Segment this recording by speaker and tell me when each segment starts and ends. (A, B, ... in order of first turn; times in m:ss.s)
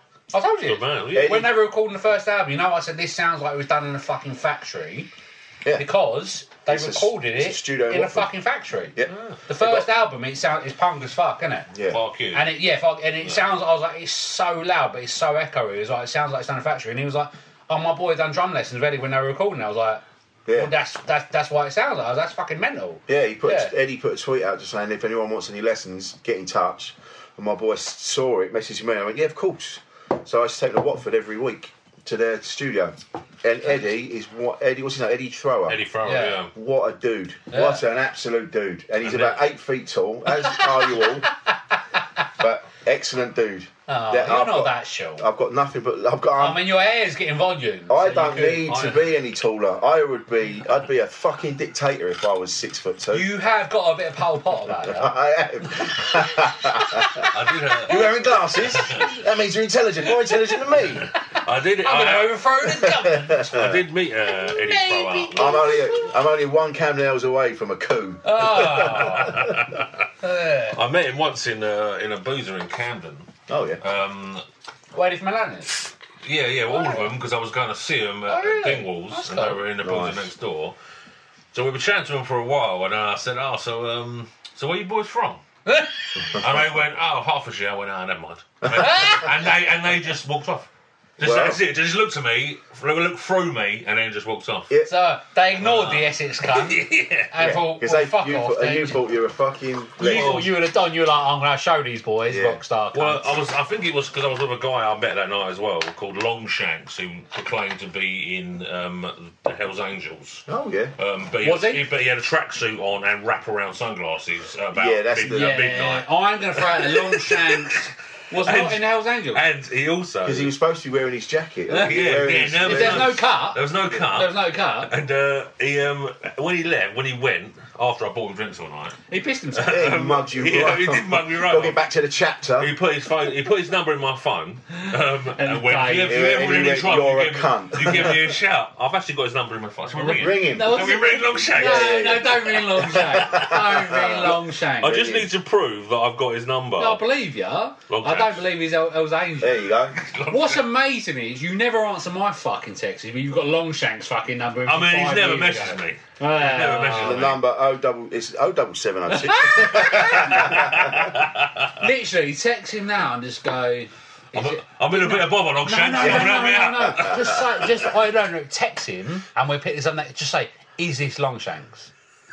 0:00.3-0:05.1 A
0:00.6-0:01.4 B
0:01.2-0:01.5 C
0:05.8-0:09.0 A
0:06.7-0:08.3 C
0:09.0-0:09.9 C
0:09.1-0:09.4 B
0:09.5-0:11.7 A
0:11.7-0:12.0 C
0:11.9-0:12.5 B
0:12.3-0:20.0 A
0:20.5-0:20.7 C
0:20.5-0:23.7 A
0:23.1-0:35.8 C
0:35.7-0:36.5 B
0:36.1-0:36.4 A
0:36.5-0:41.3 C
0:37.5-0:37.8 A
0:39.0-0:39.5 B
0:40.5-0:41.3 A
0:42.4-0:46.7 C
0:43.9-0:45.2 A
0:46.4-0:49.0 A
0:47.9-0:53.3 C
0:53.1-0:55.1 A
0:54.9-0:57.2 C
0:57.2-0:58.1 B
0:57.8-1:01.1 C
1:01.3-1:03.7 A
1:01.4-1:02.4 B
1:02.8-1:03.7 C
1:03.4-1:05.6 B
1:04.3-1:06.1 A
1:05.3-1:09.4 C
1:08.2-1:09.5 A
1:08.8-1:09.9 B
1:10.2-1:10.8 A
1:10.7-1:13.3 B
1:13.5-1:13.8 C
1:13.8-1:14.4 B
1:14.9-1:15.9 A
1:16.2-1:20.8 B
1:16.7-1:17.1 A
1:18.3-1:19.6 A
1:19.8-1:20.3 C
1:21.5-1:25.4 B
1:25.7-1:26.2 A
1:26.3-1:34.7 B
1:28.8-1:29.2 A
1:31.2-1:31.6 C
1:34.9-1:39.0 A
1:35.6-1:37.3 B
1:37.4-1:40.5 C
1:40.0-1:43.3 A
1:40.0-1:40.5 B
1:42.3-1:42.6 C
1:42.9-1:50.4 B
1:50.5-1:50.9 C
1:51.0-1:57.8 B
1:51.4-1:51.8 A
1:54.7-1:55.6 C
1:55.3-1:59.4 A
1:58.4-2:00.5 B
2:00.2-2:03.2 C
2:01.8-2:09.0 B
2:02.6-2:04.9 A
2:09.1-2:09.9 A
2:09.5-2:11.8 B
2:09.7-2:12.7 C
2:12.6-2:23.0 B
2:14.8-2:16.2 A
2:16.0-2:18.4 C
2:20.0-2:25.1 A
2:20.1-2:20.9 C
2:21.6-2:22.3 C
2:22.9-2:25.3 C
2:24.8-2:27.0 B
2:26.8-2:29.6 A
2:27.9-2:28.4 B
2:29.4-2:30.0 C
2:30.0-2:30.6 B
2:30.3-2:37.2 A
2:34.7-2:37.4 B
2:36.9-2:41.1 C
2:39.2-2:40.6 A
2:40.0-2:41.3 B
2:41.8-2:51.9 A
2:44.3-2:47.6 B
2:46.0-2:47.3 C